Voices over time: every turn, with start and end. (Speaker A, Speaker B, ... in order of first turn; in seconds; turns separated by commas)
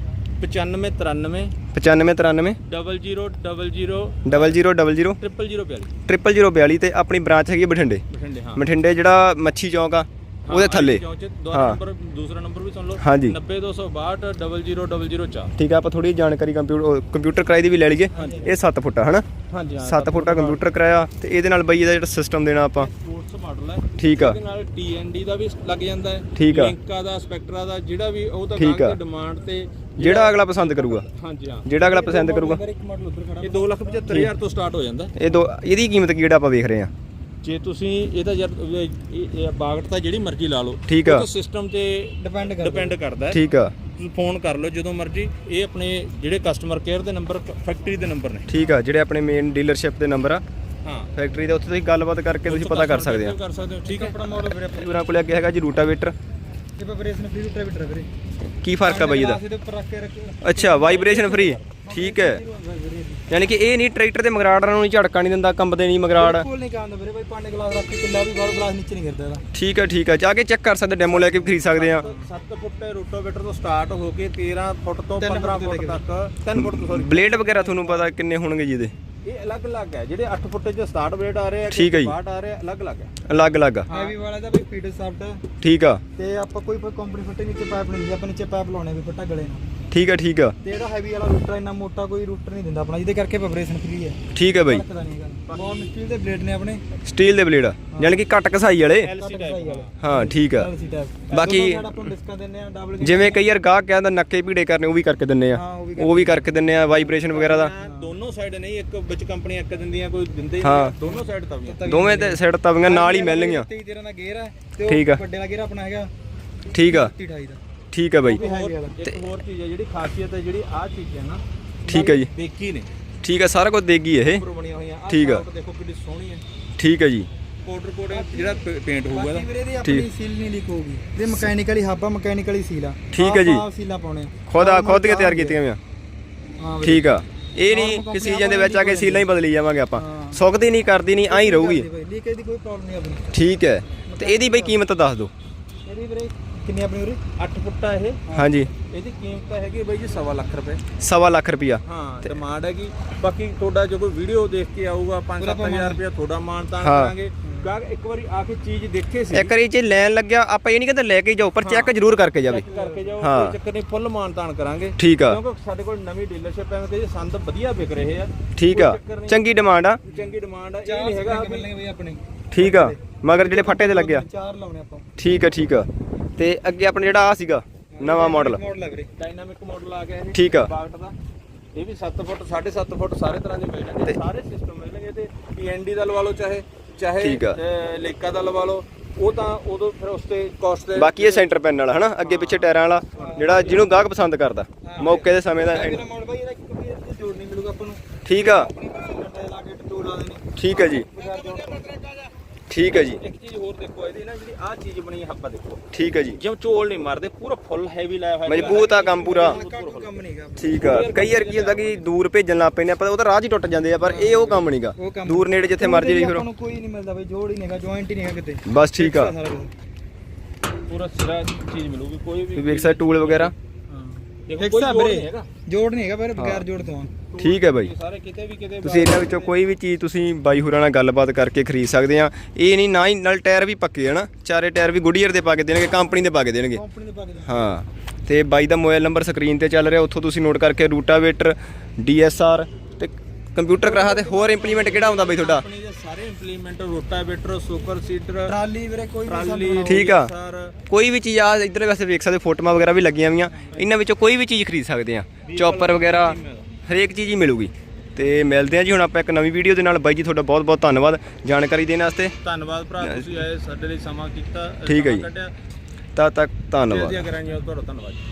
Speaker A: 0.4-1.5, Speaker B: 1.7-2.6, Speaker A: 2.6-4.6, Speaker B: 4.2-5.2, Speaker A: 5.2-5.9, Speaker B: 6.1-8.0, Speaker A: 8.1-8.6, Speaker B: 8.6-11.8, Speaker A: 10.5-15.5, Speaker B: 13.0-13.4, Speaker B: 15.6-19.2, Speaker C: 18.1-18.5, Speaker A: 18.1-18.4, Speaker A: 19.5-20.6, Speaker B: 19.8-22.9, Speaker A: 22.8-31.7, Speaker B: 24.0-24.4, Speaker B: 26.4-26.8, Speaker B: 28.6-29.0, Speaker B: 30.0-31.1, Speaker B: 31.6-32.6, Speaker C: 31.8-34.1, Speaker A: 33.4-35.1, Speaker B: 35.2-36.9, Speaker A: 37.4-43.4, Speaker B: 40.9-41.3, Speaker C: 42.2-43.0, Speaker B: 43.3-43.7, Speaker A: 43.9-48.5, Speaker B: 48.5-50.4, Speaker A: 50.8-51.1, Speaker B: 51.1-53.4, Speaker A: 52.5-54.2, Speaker C: 53.8-54.9, Speaker B: 54.6-56.1, Speaker C: 56.8-58.1, Speaker B: 58.6-59.4, Speaker C: 58.9-63.2, Speaker B: 60.4-62.4, Speaker A: 60.8-61.6, Speaker B: 63.3-66.5, Speaker C: 66.2-69.4, Speaker B: 69.5-72.0, Speaker C: 71.2-72.3, Speaker A: 71.5-77.2, Speaker C: 75.2-76.0, Speaker B: 76.6-78.9, Speaker C: 77.0-78.1, Speaker A: 79.2-83.2, Speaker B: 81.7-82.2, Speaker B: 83.3-83.9, Speaker A: 83.9-84.2, Speaker C: 83.9-85.4, Speaker B: 85.6-86.0, Speaker C: 86.2-89.7, Speaker B: 89.9-90.6, Speaker C: 90.6-96.8, Speaker B: 94.3-94.8, Speaker B: 97.1-99.1, Speaker C: 97.9-98.2, Speaker A: 99.0-99.9, Speaker C: 99.1-103.4, Speaker B: 100.0-100.7, Speaker B: 101.3-102.1, Speaker B: 103.0-107.7, Speaker C: 105.5-106.7, Speaker A: 107.2-111.8, Speaker C: 107.8-108.2, Speaker B: 110.6-111.0, Speaker C: 111.0-116.1, Speaker B: 111.9-113.7, Speaker B: 114.9-115.2, Speaker B: 116.7-117.1, Speaker C: 116.7-117.6, Speaker B: 117.9-118.4, Speaker C: 118.3-119.0, Speaker A: 118.3-122.9, Speaker B: 121.9-122.3, Speaker B: 123.2-124.4, Speaker A: 124.3-126.4, Speaker B: 125.1-125.5, Speaker B: 126.8-127.3, Speaker A: 127.6-129.5, Speaker C: 128.1-135.6, Speaker B: 129.8-130.1, Speaker B: 133.1-133.7, Speaker B: 134.5-135.8, Speaker C: 136.6-137.1, Speaker B: 136.8-141.9, Speaker C: 137.7-139.2, Speaker C: 140.0-140.4, Speaker C: 141.3-143.2, Speaker B: 143.3-145.3, Speaker C: 144.1-144.8, Speaker C: 145.9-147.2, Speaker A: 147.4-148.2, Speaker C: 148.3-148.6, Speaker B: 148.3-148.7, Speaker A: 148.9-150.8, Speaker B: 151.0-151.8, Speaker A: 151.8-159.5, Speaker C: 155.4-156.0, Speaker B: 156.8-157.2, Speaker C: 157.4-157.7, Speaker B: 159.3-162.7, Speaker A: 161.6-161.9, Speaker A: 162.4-169.4, Speaker C: 162.7-163.2, Speaker B: 163.2-163.6, Speaker B: 165.0-165.4, Speaker B: 168.6-170.0, Speaker A: 170.1-171.7, Speaker C: 170.1-175.1, Speaker B: 172.5-174.2, Speaker B: 175.2-178.6, Speaker C: 177.9-179.1, Speaker A: 179.2-181.2, Speaker B: 180.3-180.7, Speaker A: 181.8-191.5, Speaker B: 187.2-187.6, Speaker B: 190.9-196.0, Speaker A: 192.2-193.9, Speaker C: 193.2-193.8, Speaker C: 194.8-201.9, Speaker A: 195.0-195.3, Speaker B: 198.2-198.7, Speaker B: 200.6-201.1, Speaker A: 201.2-202.3, Speaker B: 202.7-203.2, Speaker A: 203.1-205.8, Speaker B: 205.9-206.4, Speaker A: 206.3-210.2, Speaker B: 208.5-209.6, Speaker C: 208.6-211.0, Speaker B: 210.6-216.5, Speaker A: 210.8-212.1, Speaker A: 214.2-214.6, Speaker C: 215.0-219.7, Speaker B: 218.7-219.3, Speaker A: 220.9-223.5, Speaker B: 222.6-223.5, Speaker C: 223.9-227.1, Speaker A: 224.5-225.5, Speaker B: 226.4-226.7, Speaker A: 227.2-229.5, Speaker B: 227.4-227.9, Speaker B: 228.8-236.8, Speaker C: 235.9-237.8, Speaker B: 237.4-245.7, Speaker A: 243.8-248.6, Speaker C: 248.5-250.1, Speaker A: 249.3-250.8, Speaker B: 249.9-250.3, Speaker B: 250.9-262.3, Speaker C: 253.5-253.8, Speaker A: 255.4-256.7, Speaker A: 262.4-265.5, Speaker B: 263.0-263.3, Speaker B: 264.9-265.3, Speaker B: 266.1-267.3, Speaker A: 266.9-268.2